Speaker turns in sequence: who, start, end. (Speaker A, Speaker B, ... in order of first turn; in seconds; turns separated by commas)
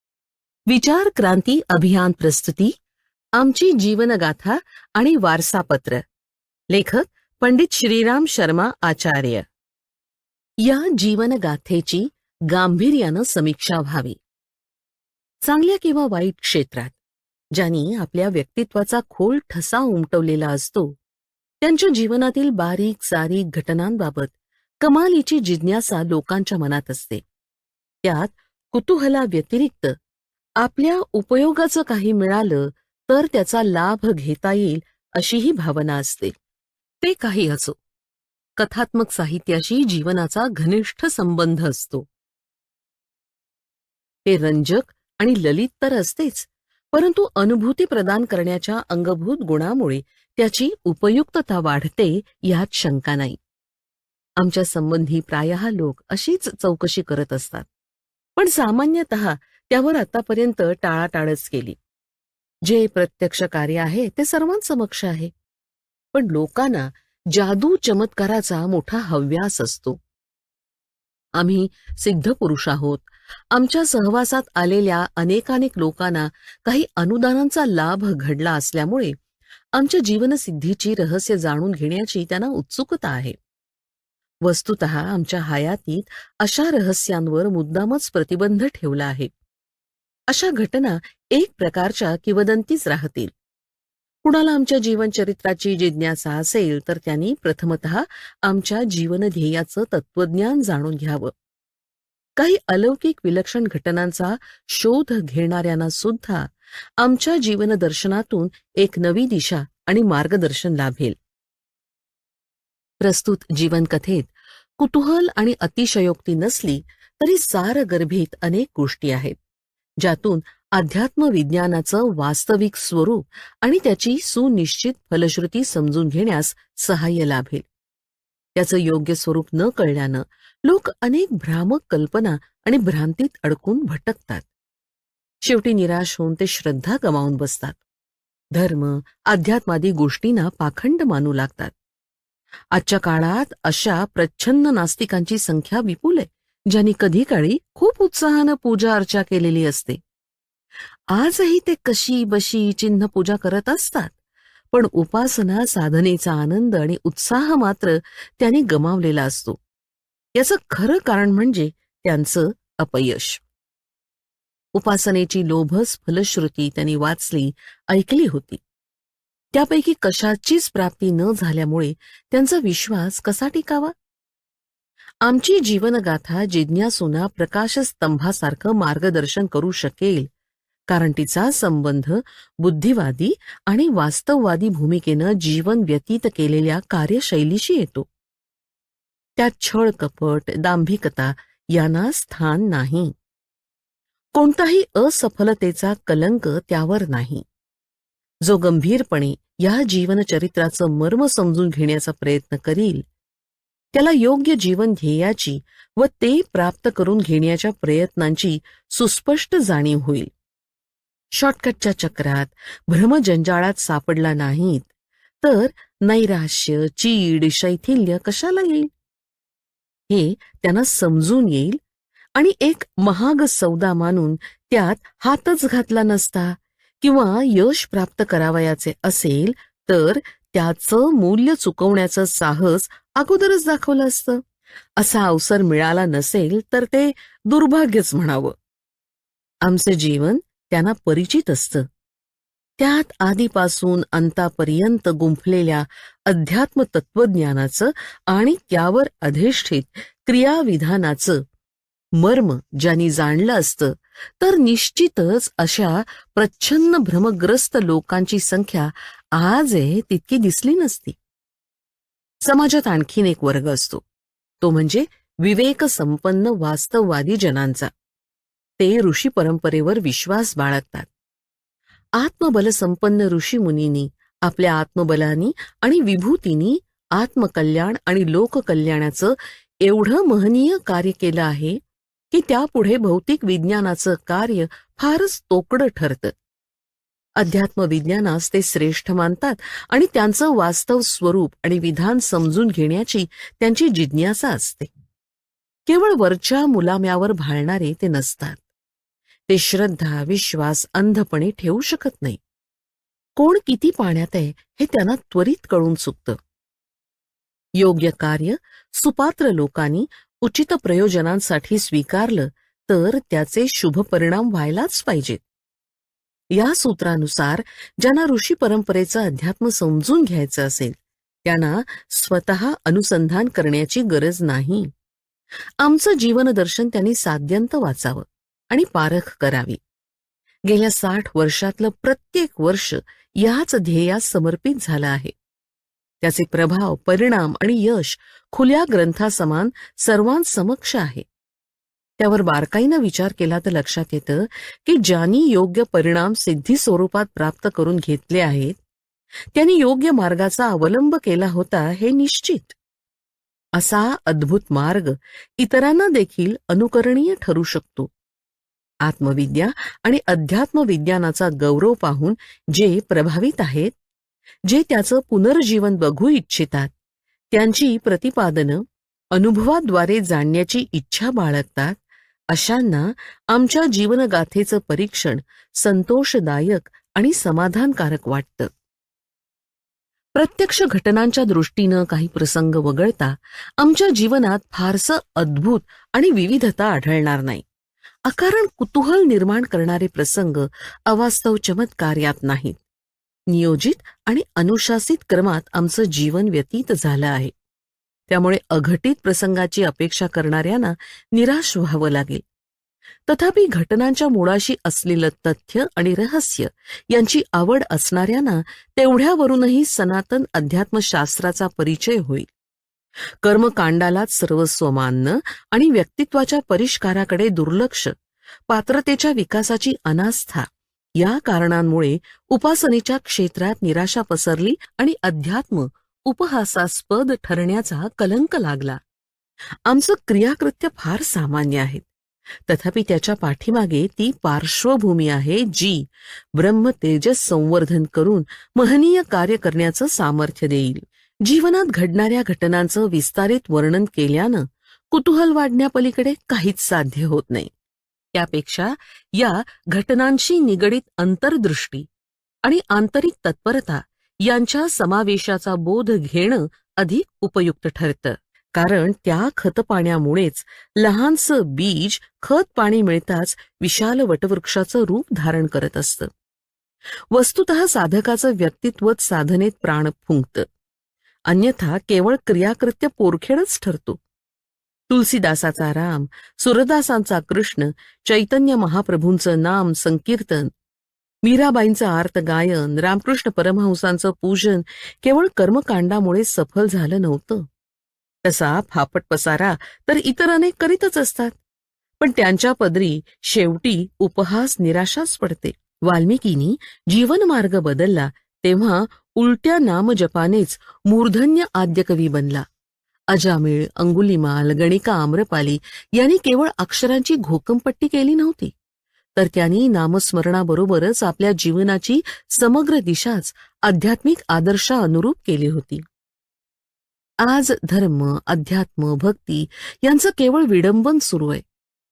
Speaker A: 0.7-2.7, Speaker A: 3.4-6.0, Speaker A: 6.7-9.4, Speaker A: 10.6-14.2, Speaker A: 15.4-16.9, Speaker A: 17.5-20.9, Speaker A: 21.6-27.2, Speaker A: 28.0-29.9, Speaker A: 30.6-36.3, Speaker A: 37.0-37.8, Speaker A: 38.6-42.1, Speaker A: 44.2-53.4, Speaker A: 54.4-57.7, Speaker A: 58.4-61.8, Speaker A: 62.6-65.3, Speaker A: 66.1-70.0, Speaker A: 71.3-79.2, Speaker A: 79.7-83.3, Speaker A: 84.4-89.3, Speaker A: 90.3-93.3, Speaker A: 94.2-101.3, Speaker A: 102.4-111.2, Speaker A: 113.0-119.4, Speaker A: 120.0-127.6, Speaker A: 128.6-134.4, Speaker A: 135.4-137.8, Speaker A: 138.5-141.7, Speaker A: 142.7-150.0, Speaker A: 151.1-154.1, Speaker A: 154.7-159.6, Speaker A: 160.3-163.4, Speaker A: 164.7-168.6, Speaker A: 169.5-173.9, Speaker A: 175.2-180.3, Speaker A: 180.9-188.1, Speaker A: 189.4-193.1, Speaker A: 194.3-197.4, Speaker A: 198.4-203.0, Speaker A: 203.9-210.3, Speaker A: 211.3-214.9, Speaker A: 215.4-218.9, Speaker A: 220.1-221.8, Speaker A: 222.3-234.4, Speaker A: 235.0-238.5, Speaker A: 239.6-241.8, Speaker A: 242.8-251.4, Speaker A: 252.2-261.1, Speaker A: 262.4-264.0, Speaker A: 264.6-267.9, Speaker A: 268.8-271.1, Speaker A: 272.2-281.8, Speaker A: 282.3-286.3, Speaker A: 287.4-294.9, Speaker A: 295.9-298.6, Speaker A: 299.5-302.4, Speaker A: 303.4-306.4, Speaker A: 307.8-315.4, Speaker A: 316.5-324.9, Speaker A: 325.8-329.8, Speaker A: 330.7-335.3, Speaker A: 336.2-341.2, Speaker A: 342.2-348.8, Speaker A: 349.5-352.8, Speaker A: 353.7-358.1, Speaker A: 359.0-363.9, Speaker A: 364.7-366.9, Speaker A: 367.5-378.7, Speaker A: 380.3-387.6, Speaker A: 388.2-392.8, Speaker A: 393.5-397.5, Speaker A: 398.3-402.4, Speaker A: 403.3-412.5, Speaker A: 413.4-418.1, Speaker A: 418.7-429.0, Speaker A: 429.9-432.1, Speaker A: 432.7-447.7, Speaker A: 448.3-452.1, Speaker A: 452.6-466.3, Speaker A: 467.3-470.7, Speaker A: 471.5-474.2, Speaker A: 475.1-480.7, Speaker A: 481.4-487.6, Speaker A: 488.4-491.6, Speaker A: 492.2-502.6, Speaker A: 503.3-508.7, Speaker A: 509.4-516.0, Speaker A: 517.4-521.6